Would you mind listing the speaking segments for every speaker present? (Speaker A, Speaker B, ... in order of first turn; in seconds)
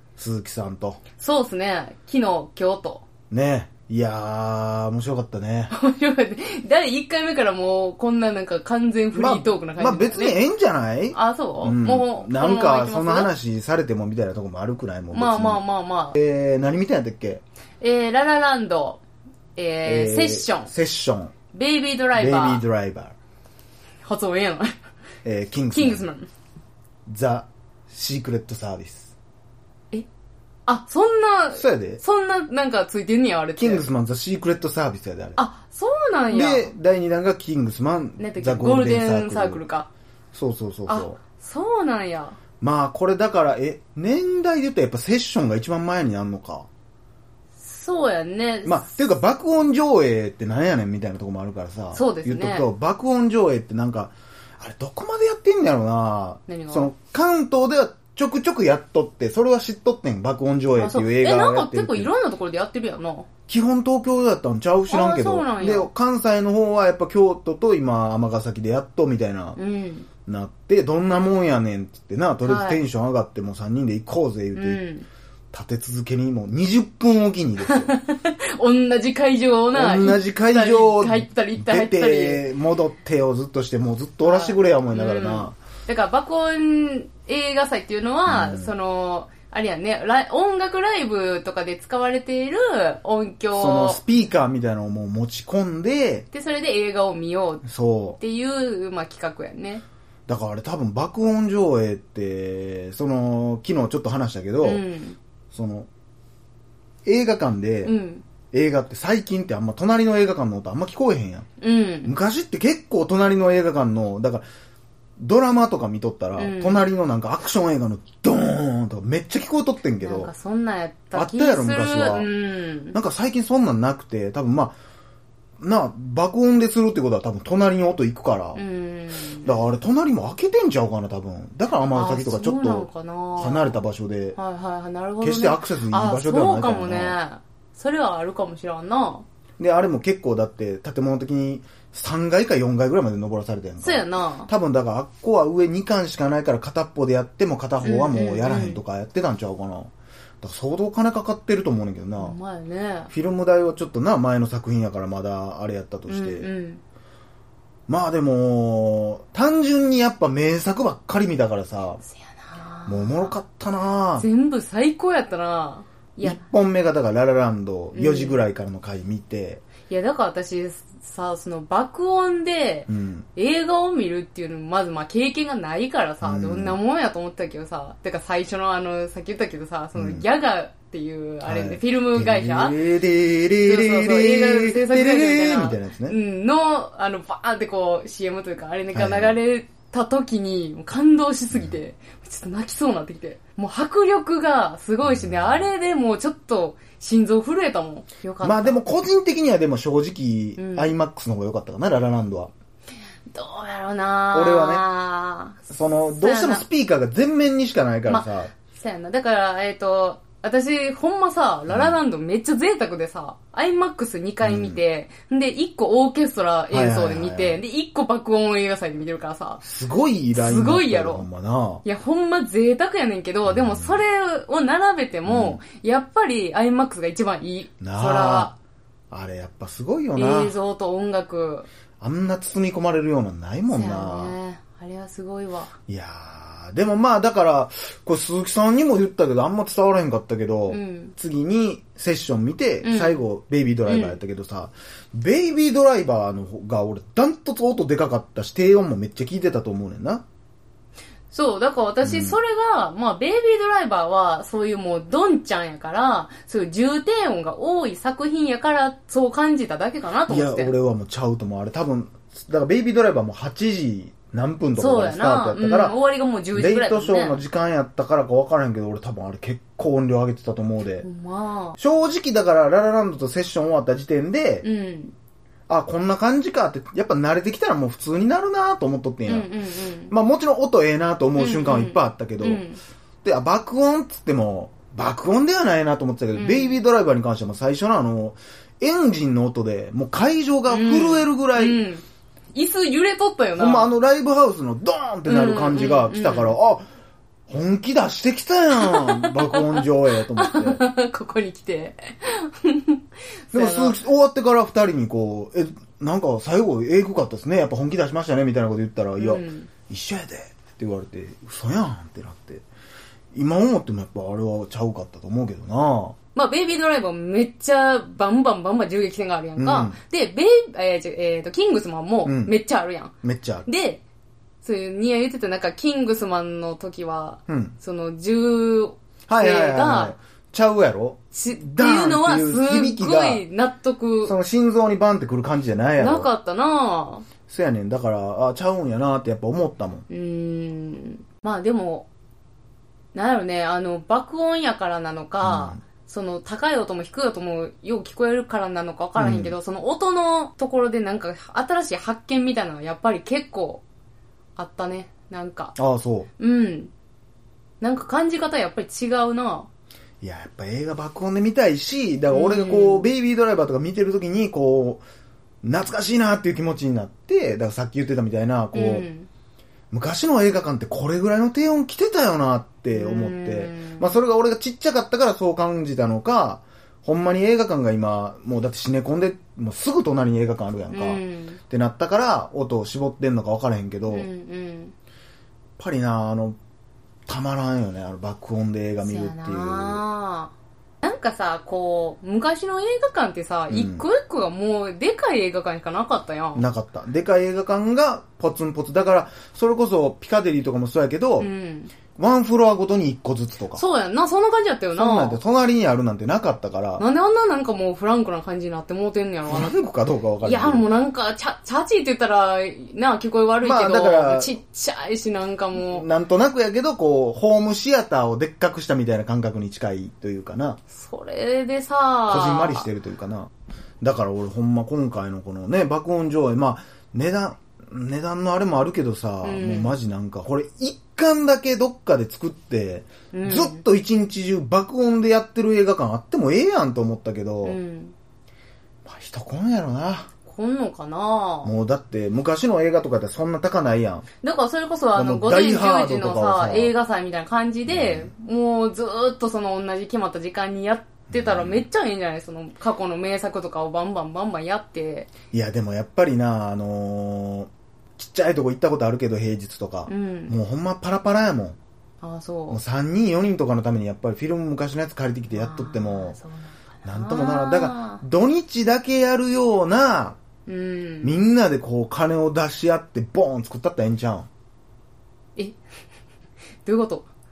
Speaker A: 0.2-1.0, 3.3-5.7, 9.1-15.6, 16.1-17.4, 19.9-21.3, 22.1-23.1, 25.2-26.1, 27.1-29.1, 31.6-32.0, 33.6-35.4, 36.3-39.6, 40.3-41.2, 42.6-46.7, 48.6-62.1, 63.5-69.6, 70.3-74.8, 75.5-77.9, 79.7-85.6, 88.3-88.7, 93.5-96.3, 97.6-98.2, 100.3-104.8, 105.5-105.9, 107.0-107.9, 108.5-111.5, 112.0-114.5, 115.2-120.3, 121.1-122.3, 122.9-124.8, 125.6-128.6, 129.4-134.4, 135.2-137.2, 139.6-152.4, 153.1-156.5, 157.9-162.0, 162.9-164.3, 166.2-169.6, 172.9-173.3, 176.2-176.8, 179.9-180.3, 181.4-186.2, 188.9-189.4, 191.5-191.8, 195.0-195.7, 198.4-202.5, 204.3-204.9, 205.7-208.5, 211.7-212.0, 214.4-214.8, 216.7-217.6, 219.6-221.8, 223.5-224.0, 225.3-225.6, 227.8-228.6, 229.1-230.6, 232.0-234.4, 235.9-250.2, 252.0-252.4, 260.3-266.0, 266.5-271.1, 271.8-274.7, 275.7-279.5, 280.1-282.6, 283.2-291.9, 293.6-296.9, 297.5-300.8, 303.5-312.6, 313.3-316.2, 319.6-320.0, 322.2-322.6, 323.2-323.7, 327.5-327.7, 329.3-333.4, 334.2-336.3, 337.5-340.1, 345.4-345.8, 349.2-349.6, 355.8-356.3, 360.2-365.0, 365.6-369.1, 369.9-384.3, 385.8-386.6, 387.3-390.0, 393.7-394.1, 396.5-401.5, 402.1-403.8, 404.9-407.0, 409.5-410.9, 413.6-414.6, 415.7-420.8, 422.3-437.8, 439.1-440.3, 441.6-444.3, 445.1-446.9, 447.9-448.3, 451.3-451.9, 455.5-461.8, 462.7-466.4, 467.1-470.4, 471.2-474.5
Speaker B: 1.2-3.0, 5.7-10.5, 11.1-13.3, 15.1-16.1, 17.8-19.0, 19.6-20.7, 21.5-22.6, 24.0-24.7, 25.7-26.3, 30.7-33.9, 35.4-36.7, 38.2-39.9, 40.9-42.4, 47.6-49.0, 51.9-52.7, 56.5-56.9, 60.8-63.3, 64.9-65.9, 69.6-70.1, 72.5-72.8, 74.6-75.1, 77.6-82.5, 84.2-94.0, 96.3-97.7, 98.2-99.8, 104.6-105.2, 107.8-108.2, 111.6-112.1, 116.4-116.9, 120.0-123.0, 128.6-129.6, 131.9-133.8, 134.4-139.2, 143.8-144.5, 147.8-148.8, 152.2-153.1, 156.1-156.8, 162.1-163.3, 164.2-166.4, 167.9-168.4, 169.9-182.8, 183.6-198.8, 200.6-200.9, 203.3-206.7, 208.1-219.6, 220.3-221.3, 221.8-228.5, 230.2-231.7, 233.7-235.7, 240.7-241.1, 242.8-243.2, 243.9-244.2, 251.3-260.7, 264.8-267.4, 271.0-271.8, 274.6-275.1, 279.3-280.1, 281.4-282.8, 286.4-286.8, 290.7-293.9, 295.3-296.6, 298.8-304.0, 309.2-309.7, 316.4-323.1, 323.7-324.0, 324.6-330.2, 331.3-334.3, 336.0-337.3, 340.1-342.1, 343.1-353.8, 354.6-355.8, 356.4-356.9, 357.8-359.7, 362.3-363.1, 368.7-369.3, 372.9-374.2, 380.9-381.6, 384.1-384.9, 389.0-396.6, 401.4-401.9, 403.7-405.4, 407.0-409.8, 410.4-416.1, 420.9-422.9, 429.4-429.9, 433.3-433.8, 437.6-438.1, 440.4-441.7, 444.4-455.3, 460.1-460.6, 462.2-462.8, 465.5-468.2, 470.7-471.3, 476.9-477.3